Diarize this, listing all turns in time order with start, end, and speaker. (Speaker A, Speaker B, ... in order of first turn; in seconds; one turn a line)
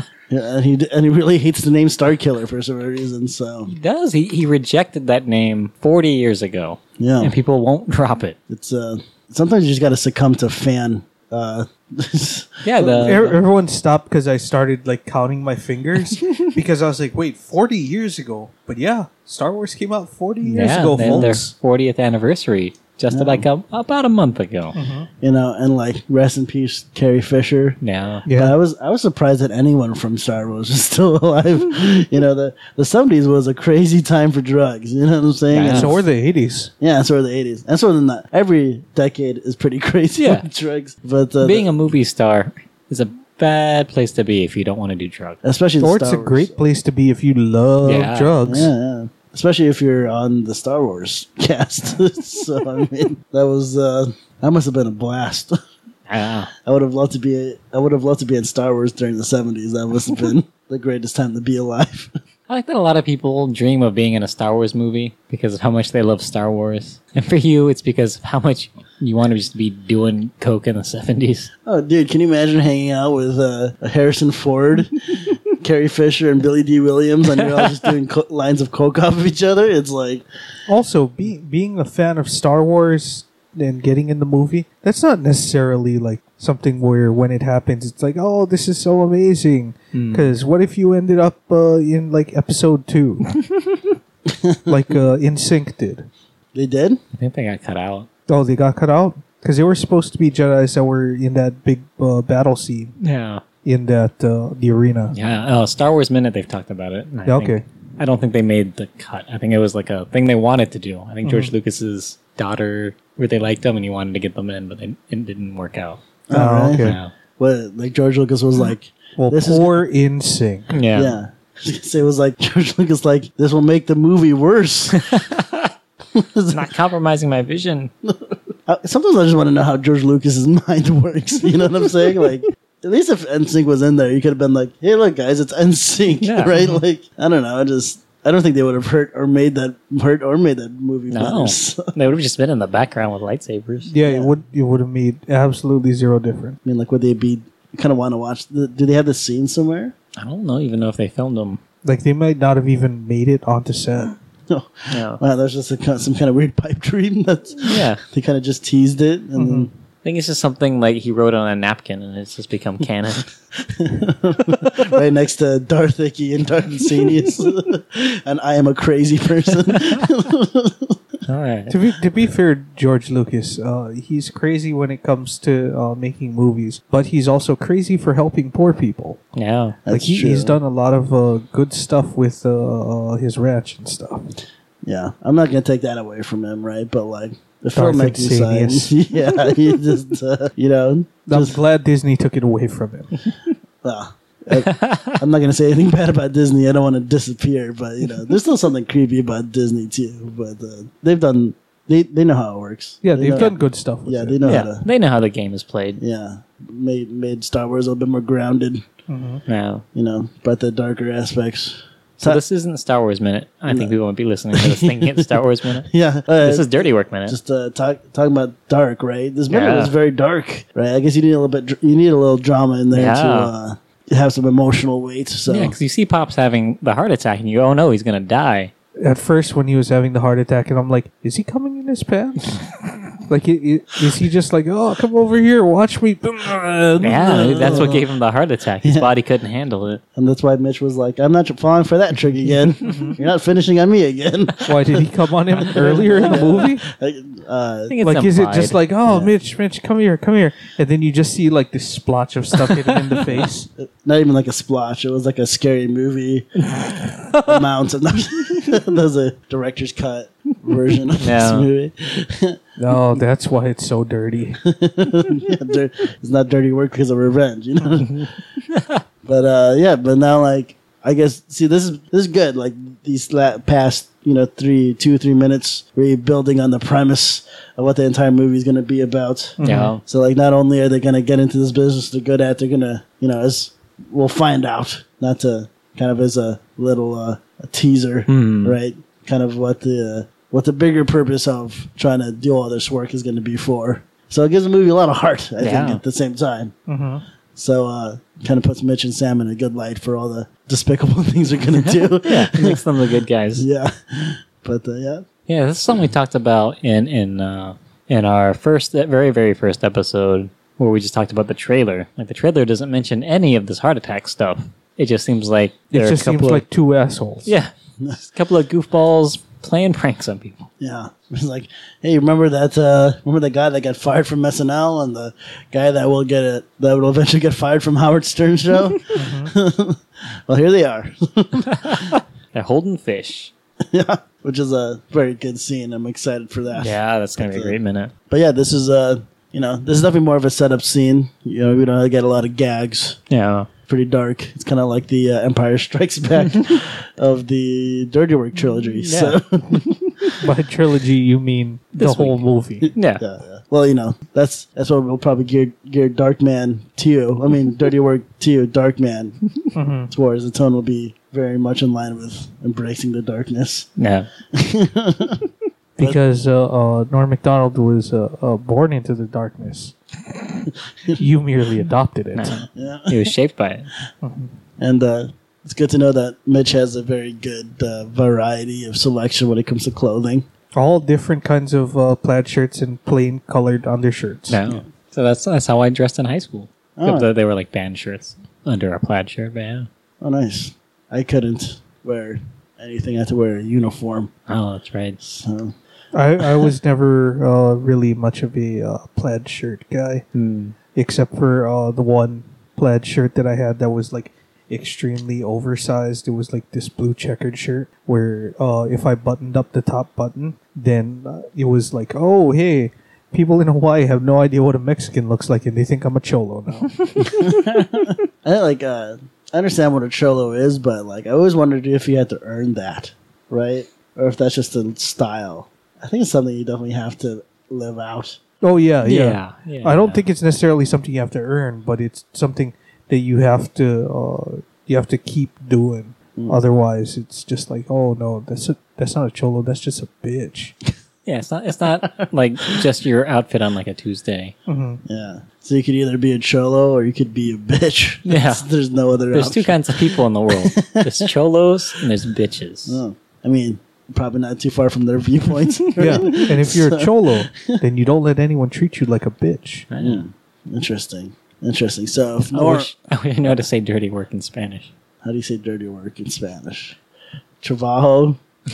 Speaker A: 0.3-3.7
Speaker B: 3.7-8.4
Speaker A: 7.0-7.3
Speaker A: 8.5-13.2
Speaker B: 12.6-13.4
Speaker C: 13.0-21.5
Speaker B: 20.4-24.8
Speaker A: 23.1-23.4
Speaker C: 24.7-25.1
Speaker A: 25.2-36.0
Speaker B: 27.8-28.2
Speaker C: 28.2-28.6
Speaker B: 35.5-35.9
Speaker C: 35.6-36.7
Speaker A: 36.8-41.7
Speaker B: 40.2-40.5
Speaker B: 41.4-45.4
Speaker A: 45.4-46.5
Speaker C: 45.8-48.7
Speaker B: 47.8-48.3
Speaker A: 48.5-55.6
Speaker B: 56.1-56.5
Speaker A: 56.6-62.1
Speaker B: 62.5-71.5
Speaker A: 71.7-80.2
Speaker C: 80.7-93.3
Speaker B: 89.9-90.3
Speaker A: 94.3-94.7
Speaker C: 94.7-96.1
Speaker A: 96.5-97.0
Speaker B: 97.1-98.1
Speaker C: 98.3-102.9
Speaker B: 103.0-103.4
Speaker C: 103.6-105.1
Speaker B: 105.1-116.0
Speaker C: 107.2-107.6
Speaker C: 111.2-111.5
Speaker A: 116.3-119.8
Speaker C: 116.3-117.0
Speaker B: 116.8-117.1
Speaker C: 119.2-120.7
Speaker B: 120.7-121.2
Speaker A: 120.9-125.1
Speaker B: 125.0-125.7
Speaker A: 126.1-126.7
Speaker B: 126.5-127.9
Speaker A: 128.7-141.9
Speaker B: 136.2-136.5
Speaker B: 141.1-143.9
Speaker C: 143.9-146.6
Speaker A: 144.0-144.3
Speaker A: 146.6-149.9
Speaker B: 150.2-151.6
Speaker C: 151.8-154.1
Speaker A: 154.5-159.7
Speaker B: 154.9-155.2
Speaker B: 157.6-158.0
Speaker C: 159.3-159.7
Speaker B: 160.0-163.3
Speaker A: 163.7-170.9
Speaker B: 171.3-171.8
Speaker C: 171.7-179.2
Speaker B: 179.3-179.8
Speaker A: 179.8-180.6
Speaker C: 179.9-184.3
Speaker A: 184.8-191.6
Speaker C: 187.7-188.9
Speaker C: 191.3-193.1
Speaker A: 193.8-204.8
Speaker B: 194.6-195.2
Speaker C: 203.0-204.4
Speaker B: 204.4-206.0
Speaker A: 206.0-208.8
Speaker C: 209.1-209.4
Speaker B: 209.5-209.8
Speaker A: 209.9-212.4
Speaker B: 212.2-215.9
Speaker A: 213.7-213.9
Speaker A: 214.5-215.3
Speaker A: 215.8-225.7
Speaker B: 216.4-217.4
Speaker B: 219.5-219.9
Speaker B: 222.9-223.5
Speaker B: 225.5-228.7
Speaker C: 229.0-232.6
Speaker C: 233.2-238.0
Speaker B: 237.0-240.0
Speaker A: 237.2-238.0
Speaker A: 238.8-239.1
Speaker A: 240.2-245.1
Speaker C: 242.8-243.2
Speaker C: 244.7-246.8
Speaker A: 245.6-247.9
Speaker B: 247.9-248.8
Speaker C: 248.0-253.7
Speaker A: 249.1-249.3
Speaker A: 253.8-256.6
Speaker C: 257.2-257.6
Speaker A: 257.3-262.9
Speaker B: 261.2-261.7
Speaker C: 262.8-264.6
Speaker A: 264.6-268.3
Speaker B: 268.7-269.0
Speaker A: 269.2-296.7
Speaker C: 279.6-279.9
Speaker B: 279.6-280.0
Speaker B: 288.3-288.8
Speaker B: 295.6-296.0
Speaker C: 296.9-297.2
Speaker A: 297.5-302.8
Speaker B: 301.8-303.6
Speaker A: 303.6-305.2
Speaker B: 305.5-316.6
Speaker C: 315.9-317.5
Speaker B: 317.4-320.7
Speaker A: 320.8-332.1
Speaker C: 329.1-329.5
Speaker B: 331.8-333.5
Speaker A: 333.9-337.7
Speaker B: 336.8-338.1
Speaker A: 338.3-343.2
Speaker B: 343.3-343.7
Speaker A: 343.9-350.3
Speaker B: 349.0-349.4
Speaker C: 350.4-352.9
Speaker B: 351.9-353.2
Speaker A: 352.8-359.5
Speaker C: 359.7-360.1
Speaker A: 360.1-363.9
Speaker B: 364.0-364.3
Speaker A: 364.5-365.4
Speaker C: 366.0-369.9
Speaker C: 371.1-372.6
Speaker B: 372.3-373.9
Speaker A: 372.7-373.3
Speaker C: 374.2-374.5
Speaker A: 374.8-380.4
Speaker C: 380.7-384.6
Speaker B: 384.5-389.9
Speaker A: 387.0-387.3
Speaker A: 390.2-394.3
Speaker B: 394.5-395.2
Speaker A: 395.2-395.7
Speaker C: 396.1-400.2
Speaker B: 400.3-400.7
Speaker C: 400.9-417.4
Speaker A: 417.4-428.4
Speaker C: 428.6-440.7
Speaker B: 429.0-430.2
Speaker B: 441.2-444.5
Speaker C: 444.7-445.0
Speaker A: 445.1-451.3
Speaker B: 448.2-448.6
Speaker B: 449.3-453.0
Speaker A: 452.9-457.8
Speaker C: 456.0-459.9
Speaker B: 459.9-460.2
Speaker A: 460.0-462.9
Speaker B: 462.5-464.9
Speaker A: 465.2-467.0
Speaker A: 467.6-468.4